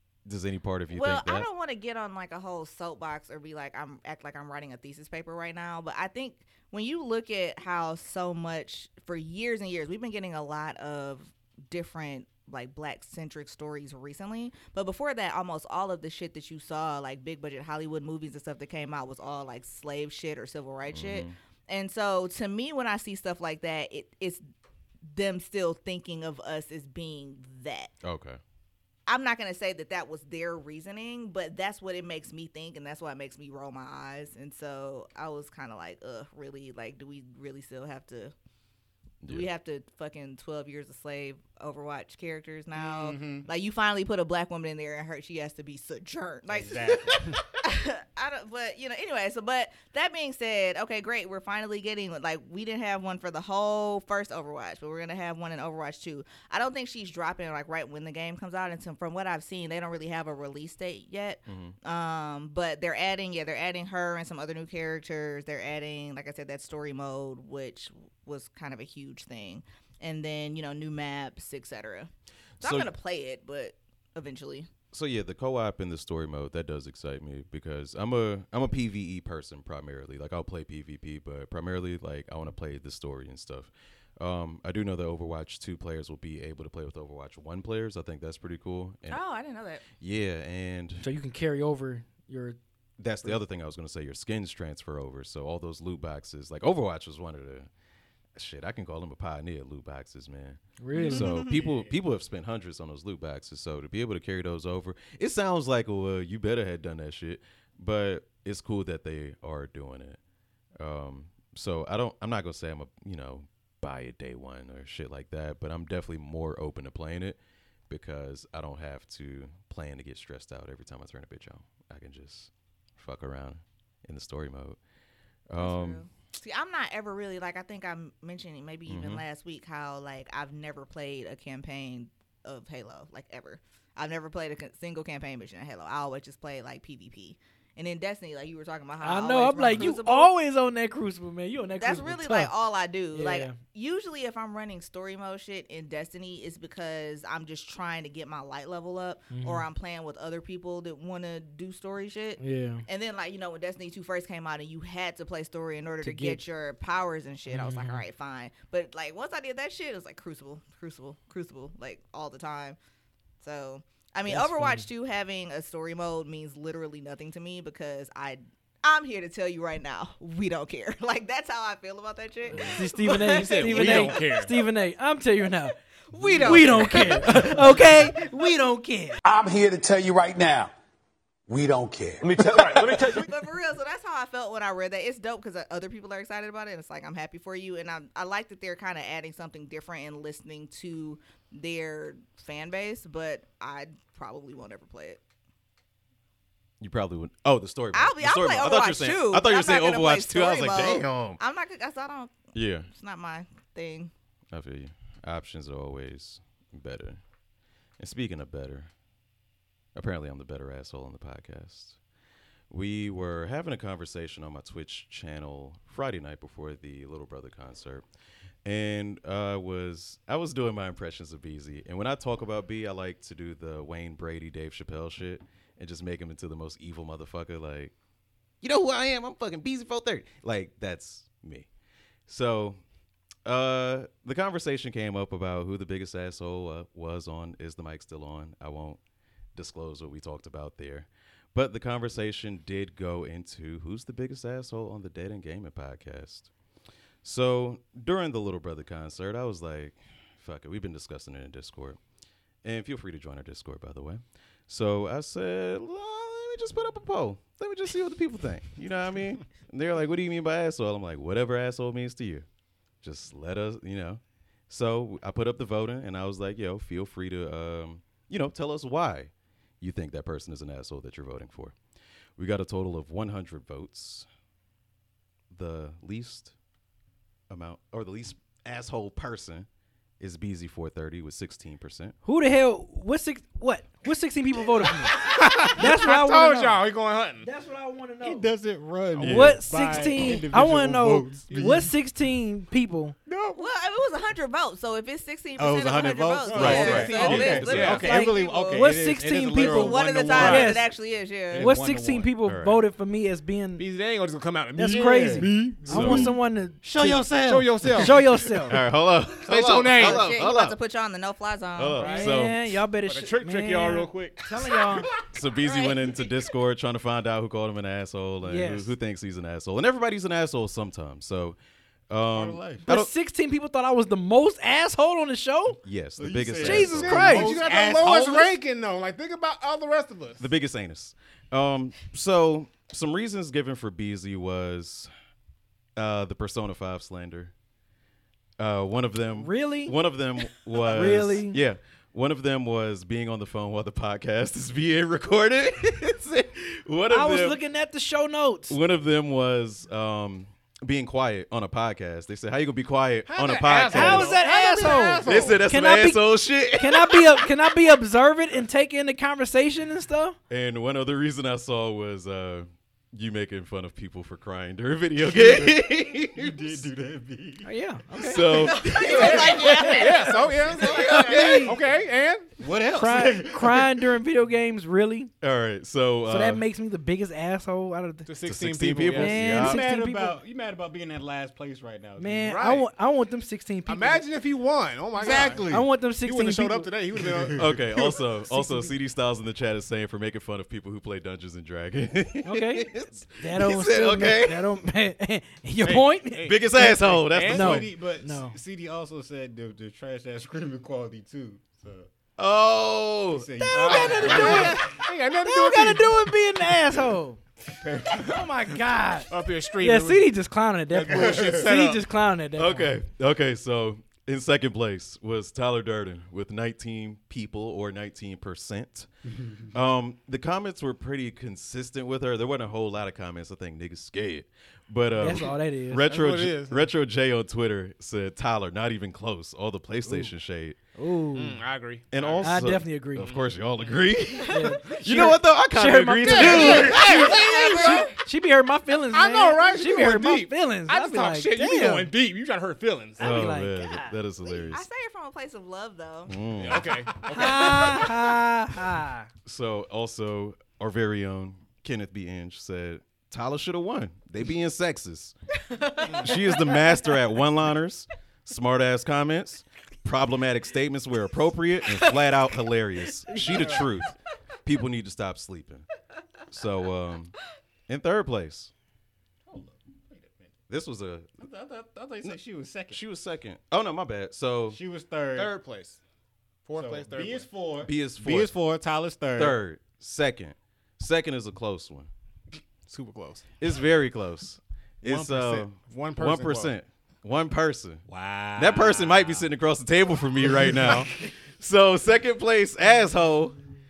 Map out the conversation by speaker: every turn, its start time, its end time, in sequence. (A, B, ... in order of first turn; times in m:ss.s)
0:00.2-0:01.5 A
0:00.9-0:24.4 B
0:20.9-0:21.3 A
0:25.1-0:27.9 B
0:28.0-0:28.4 A
0:29.1-0:38.3 B
0:39.2-0:39.5 A
0:39.3-1:12.1 B
0:42.7-0:43.5 C
0:46.5-0:47.4 C
1:01.5-1:01.8 A
1:12.6-1:12.9 A
1:12.6-1:14.7 B
1:14.9-1:29.2 A
1:29.1-1:29.8 B
1:30.0-1:31.1 A
1:31.0-1:32.6 D
1:33.0-1:37.7 A
1:38.3-1:50.2 A
1:40.8-1:41.4 D
1:40.9-1:41.6 B
1:41.5-1:41.9 C
1:50.8-2:04.8 A
2:05.5-2:06.0 A
2:05.6-2:20.3 B
2:08.9-2:09.2 A
2:19.0-2:22.5 D
2:21.8-2:42.8 B
2:23.1-2:23.6 D
2:29.3-2:29.7 D
2:32.4-2:32.8 D
2:36.0-2:36.4 D
2:37.5-2:38.0 D
2:43.4-2:54.2 B
2:44.3-2:44.8 D
2:52.5-2:52.8 A
2:52.6-2:55.7 D
2:53.3-2:54.5 E
2:56.1-2:58.3 B
2:56.4-2:59.2 D
2:59.2-3:00.7 F
3:01.5-3:03.3 F
3:02.8-3:15.2 B
3:16.8-3:21.4 A
3:17.9-3:24.1 B
3:22.5-3:22.9 A
3:24.5-3:27.2 A
3:28.0-3:28.9 A
3:29.9-3:32.0 A
3:32.7-3:38.0 A
3:38.6-3:47.9 A
3:48.6-3:51.7 A
3:52.3-3:52.8 A
3:53.4-3:59.0 A
3:59.5-4:06.5 A
4:07.2-4:12.0 A
4:12.6-4:22.4 A
4:23.0-4:31.8 A
4:32.4-4:34.3 A
4:35.5-4:36.5 A
4:37.5-4:39.7 A
4:40.2-4:42.2 A
4:42.2-4:46.8 D
4:45.0-4:47.5 E
4:47.4-4:48.5 D
4:48.2-4:51.9 C
4:49.1-4:50.4 E
4:49.2-4:49.6 A
4:49.2-4:53.2 D
4:53.3-4:53.6 C
4:53.6-4:58.8 B
4:55.6-5:00.8 C
4:56.5-4:58.0 A
4:56.5-4:58.9 E
4:56.6-4:57.4 D
4:57.9-5:00.9 D
4:59.6-5:01.7 B
5:00.3-5:00.7 E
5:01.5-5:02.3 C
5:01.5-5:03.8 D
5:02.4-5:02.8 A
5:03.8-5:05.4 E
5:04.8-5:08.8 D
5:04.8-5:08.2 C
5:05.8-5:06.3 A
5:07.2-5:08.2 E
5:08.7-5:10.8 A
5:09.4-5:10.4 E
5:10.0-5:12.0 B
5:11.8-5:12.8 A
5:12.0-5:12.3 E
5:12.0-5:15.1 D
5:13.1-5:14.5 E
5:15.3-5:21.6 A
5:15.6-5:16.5 B
5:18.4-5:18.9 D
5:22.1-5:23.1 A
5:22.3-5:22.8 C
5:22.8-5:25.8 D
5:25.8-5:27.2 A
5:26.2-5:28.5 C
5:26.6-5:27.6 D
5:27.0-5:30.4 E
5:30.4-5:35.1 A
5:36.0-5:37.5 A
5:38.6-5:47.6 A
5:39.4-5:39.9 D
5:40.9-5:41.6 D
5:47.1-5:48.8 D
5:48.7-5:54.4 A
5:53.2-5:55.6 E
5:53.9-6:00.4 D
5:55.2-5:57.5 A
6:00.5-6:06.9 A
6:05.3-6:05.8 C
6:06.3-6:07.7 C
6:07.6-6:09.0 D
6:08.2-6:09.9 A
6:08.6-6:11.6 B
6:08.9-6:12.5 E
6:09.6-6:10.0 D
6:10.8-6:11.8 D
6:10.8-6:11.7 A
6:12.6-6:14.1 C
6:12.9-6:15.3 D
6:15.4-6:16.6 A
6:16.2-6:18.3 D
6:18.2-6:19.4 E
6:18.5-6:19.8 A
6:19.0-6:20.4 D
6:19.4-6:22.6 C
6:22.2-6:24.2 D
6:22.4-6:22.9 E
6:23.9-6:28.2 E
6:25.2-6:25.9 C
6:25.2-6:26.9 D
6:27.2-6:27.8 C
6:27.6-6:34.7 A
6:28.5-6:29.0 D
6:32.4-6:38.6 D
6:35.8-6:37.8 E
6:36.4-6:37.8 A
6:37.4-6:42.1 C
6:42.4-6:44.7 A
6:43.3-6:44.8 C
6:43.7-6:47.4 D
6:43.7-6:46.2 E
6:47.8-6:48.4 C
6:48.1-6:52.9 D
6:49.3-6:50.3 E
6:50.9-6:52.0 E
6:51.1-6:51.7 C
6:52.6-6:59.1 A
6:59.7-7:10.8 A
7:05.1-7:06.1 D
7:06.0-7:06.9 E
7:10.0-7:10.3 D
7:11.0-7:11.6 D
7:11.3-7:12.6 E
7:12.1-7:17.2 A
7:12.4-7:13.3 D
7:14.4-7:22.1 D
7:16.2-7:18.1 E
7:16.5-7:18.1 B
7:19.1-7:23.4 E
7:23.2-7:24.8 A
7:23.2-7:24.1 D
7:24.4-7:26.4 B
7:26.3-7:26.9 A
7:26.6-7:28.1 E
7:27.3-7:29.3 D
7:27.3-7:28.4 B
7:29.4-7:35.3 A
7:35.7-7:36.1 D
7:36.0-7:36.3 E
7:36.2-7:44.1 A
7:43.2-7:43.8 D
7:43.3-7:43.8 C
7:44.6-7:45.8 A
7:46.5-7:47.3 A
7:47.9-7:48.7 A
7:49.4-7:50.5 C
7:50.7-7:51.4 A
7:51.4-7:53.0 C
7:52.9-7:54.8 A
7:54.7-7:55.5 C
7:55.3-7:56.0 E
7:56.6-7:57.5 E
7:56.8-7:59.6 C
7:57.8-7:58.5 A
7:59.4-8:02.1 A
8:02.9-8:03.4 E
8:03.6-8:08.0 A
8:05.0-8:06.7 E
8:08.1-8:09.5 C
8:08.6-8:13.6 A
8:10.4-8:11.0 C